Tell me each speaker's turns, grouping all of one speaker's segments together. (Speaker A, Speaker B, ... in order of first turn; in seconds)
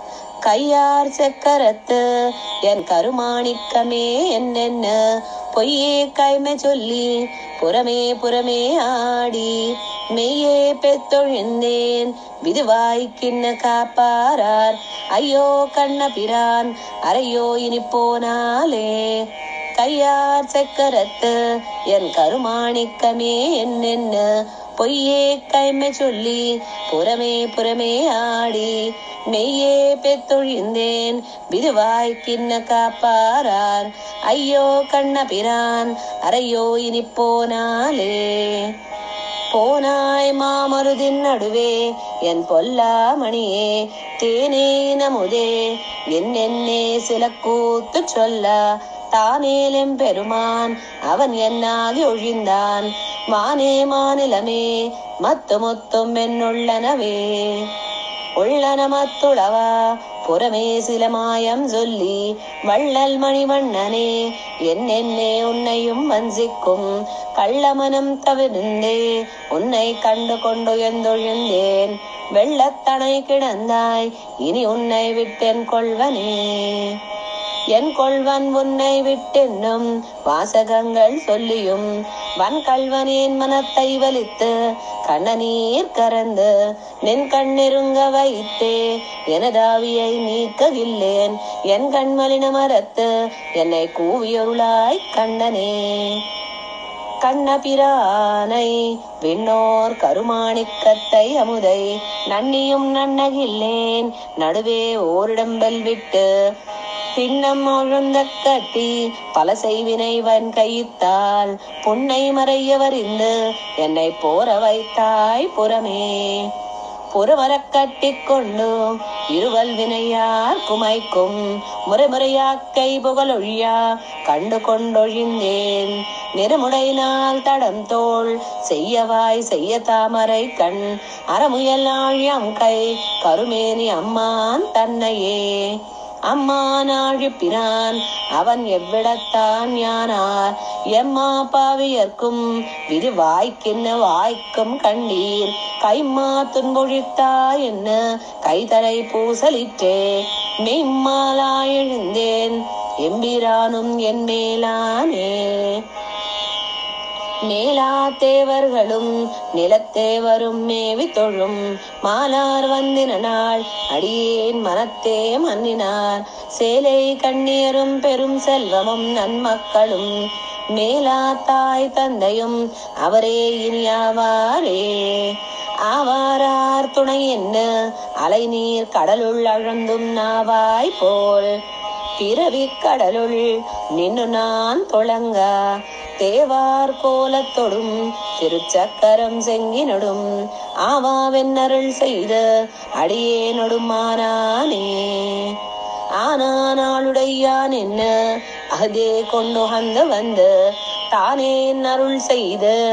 Speaker A: 0.4-38.7, 39.5-57.7, 58.4-77.0, 77.7-81.9, 82.4-84.5, 85.0-86.5, 87.0-96.2, 97.2-106.2, 107.1-116.5, 117.1-118.8, 119.3-155.8, 157.4-170.1, 170.7-177.7, 178.2-181.6, 182.2-190.3, 190.8-192.4, 193.0-195.6, 196.2-200.5, 201.1-202.8